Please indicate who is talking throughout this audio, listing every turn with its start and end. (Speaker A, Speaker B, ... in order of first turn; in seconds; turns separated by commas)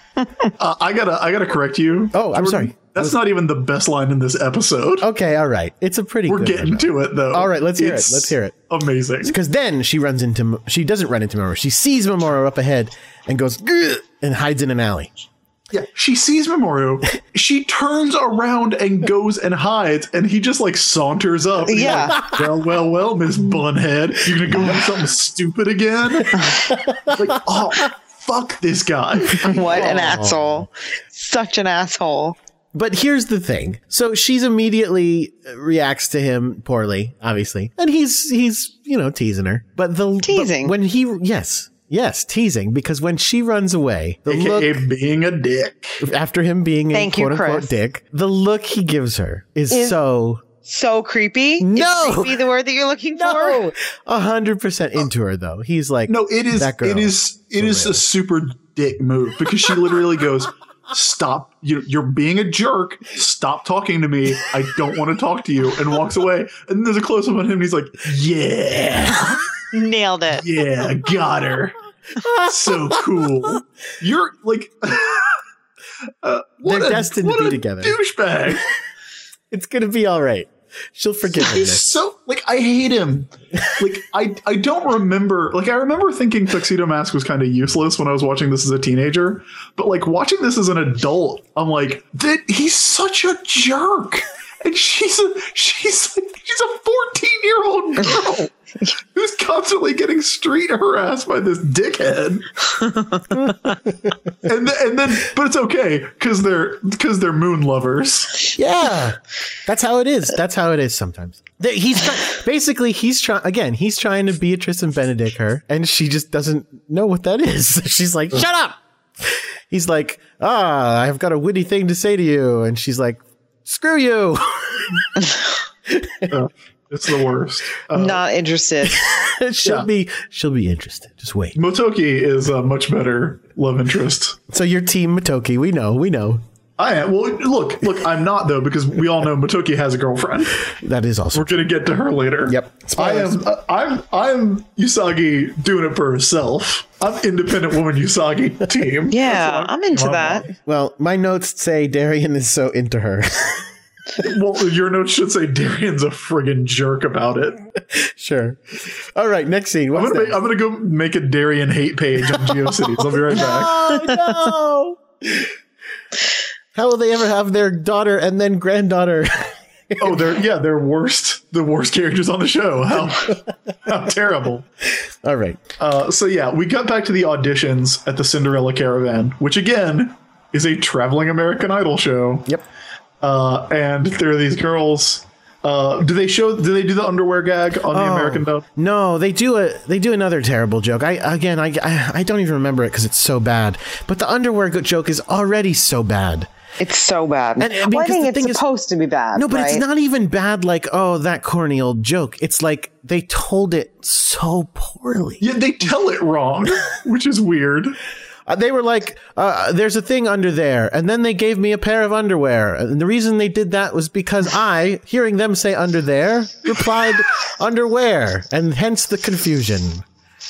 Speaker A: 0.6-5.0, Speaker B: 2.1-3.2, Speaker B: 5.0-8.5, Speaker A: 6.3-9.3, Speaker B: 9.2-15.1, Speaker A: 15.7-26.5, Speaker C: 21.7-22.2, Speaker B: 26.9-27.2, Speaker A: 27.0-30.0, Speaker C: 29.4-32.4, Speaker B: 29.5-30.7, Speaker B: 32.7-44.8, Speaker C: 40.2-40.7, Speaker A: 44.3-46.0, Speaker B: 46.0-50.4, Speaker C: 46.9-47.7, Speaker C: 49.7-50.0, Speaker C: 50.6-53.7, Speaker B: 51.6-52.4, Speaker B: 53.2-58.0, Speaker A: 56.1-69.4, Speaker C: 69.7-70.4, Speaker A: 70.3-75.4, Speaker B: 72.2-73.0, Speaker A: 76.2-78.7, Speaker B: 76.6-78.0, Speaker B: 79.5-81.9, Speaker A: 81.3-98.5, Speaker A: 99.1-103.0, Speaker A: 104.4-108.5, Speaker B: 108.5-125.2, Speaker B: 125.9-126.3, Speaker A: 126.3-128.2, Speaker C: 127.9-129.0, Speaker B: 128.8-131.6, Speaker A: 131.5-134.4, Speaker B: 134.5-136.4, Speaker A: 136.8-140.6, Speaker B: 140.7-141.6, Speaker A: 141.3-150.5, Speaker B: 142.4-143.4, Speaker C: 149.1-150.5, Speaker B: 150.6-153.7, Speaker A: 154.2-157.6, Speaker B: 157.8-160.4, Speaker A: 159.9-164.1, Speaker B: 162.4-165.5, Speaker B: 166.7-170.2, Speaker A: 170.0-174.6, Speaker B: 175.2-175.6, Speaker A: 175.8-182.5, Speaker A: 183.2-188.6, Speaker B: 187.9-196.5, Speaker C: 196.8-199.8, Speaker B: 197.6-198.6, Speaker B: 199.3-205.4, Speaker A: 205.4-208.0, Speaker B: 208.5-220.0